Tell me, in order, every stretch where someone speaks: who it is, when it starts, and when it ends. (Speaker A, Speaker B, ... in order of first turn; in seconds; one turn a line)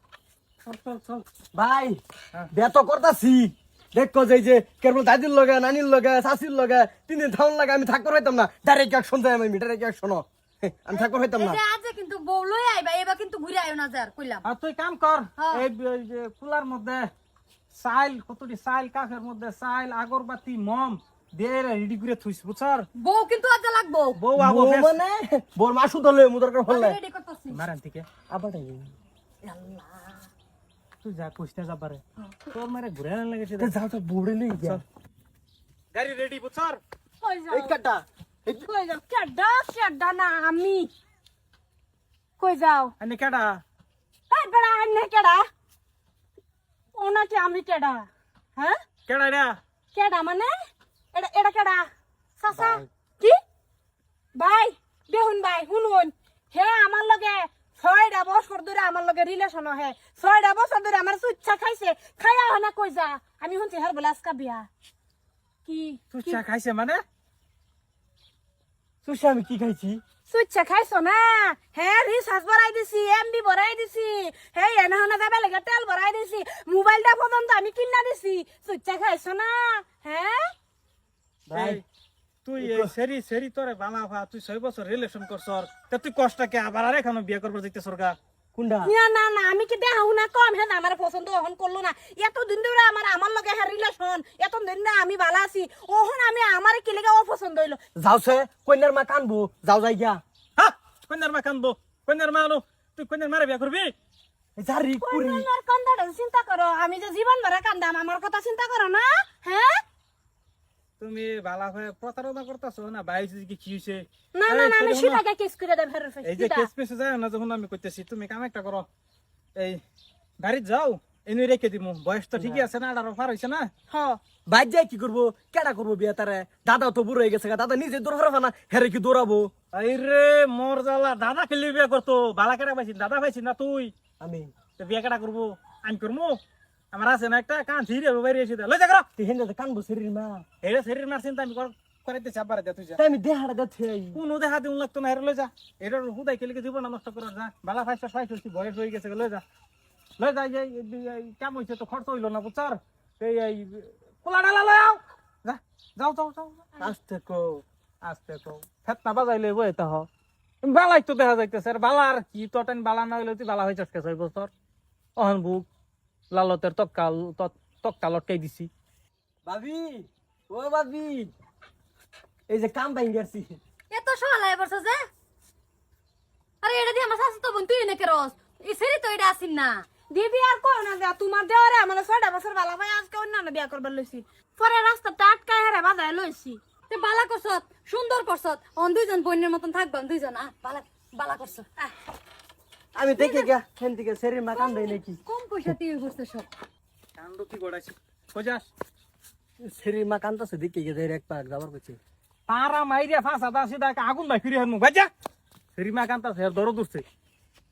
Speaker A: 0.7-1.2
Speaker B: 1.5-2.0
Speaker B: 2.5-11.6
Speaker C: 10.9-14.4
Speaker A: 14.4-17.1
Speaker C: 15.4-15.6
Speaker A: 17.7-22.9
Speaker C: 23.0-24.2
Speaker A: 24.1-25.0
Speaker B: 24.4-27.0
Speaker C: 26.7-27.6
Speaker A: 27.5-28.1
Speaker B: 28.3-28.9
Speaker B: 29.4-30.1
Speaker A: 31.0-33.8
Speaker B: 33.6-34.8
Speaker A: 35.9-36.8
Speaker D: 37.2-37.7
Speaker B: 37.5-38.6
Speaker D: 38.5-40.9
Speaker D: 42.4-42.9
Speaker A: 43.0-43.6
Speaker D: 44.3-45.5
Speaker D: 46.9-48.8
Speaker A: 49.1-49.6
Speaker D: 49.9-50.5
Speaker D: 51.1-53.4
Speaker D: 54.3-64.7
Speaker D: 65.6-66.4
Speaker A: 66.1-67.0
Speaker B: 69.0-70.0
Speaker D: 70.3-80.5
Speaker B: 81.5-81.8
Speaker A: 81.5-81.8
Speaker A: 82.4-88.2
Speaker B: 82.6-82.9
Speaker B: 88.5-88.9
Speaker D: 88.8-97.8
Speaker B: 98.0-100.2
Speaker A: 100.6-103.9
Speaker B: 104.6-105.5
Speaker D: 105.0-109.8
Speaker A: 111.0-115.2
Speaker D: 114.3-116.7
Speaker A: 116.2-118.9
Speaker A: 119.5-119.8
Speaker A: 120.4-123.7
Speaker B: 122.4-122.7
Speaker D: 123.9-124.2
Speaker B: 124.5-129.5
Speaker A: 129.7-133.9
Speaker B: 134.2-134.5
Speaker A: 134.8-136.4
Speaker A: 136.9-139.1
Speaker B: 139.2-140.4
Speaker A: 140.6-143.0
Speaker B: 143.0-144.2
Speaker A: 144.1-149.4
Speaker A: 150.2-160.1
Speaker A: 160.6-164.5
Speaker A: 165.2-165.7
Speaker A: 166.3-168.7
Speaker B: 169.4-171.3
Speaker B: 172.5-173.6
Speaker C: 173.9-175.1
Speaker C: 176.6-179.8
Speaker D: 180.1-186.6
Speaker C: 186.9-191.9
Speaker B: 192.9-195.8
Speaker C: 193.2-193.5
Speaker C: 194.5-196.5
Speaker A: 197.2-198.7
Speaker B: 199.6-202.0
Speaker A: 202.5-205.1
Speaker A: 205.8-207.0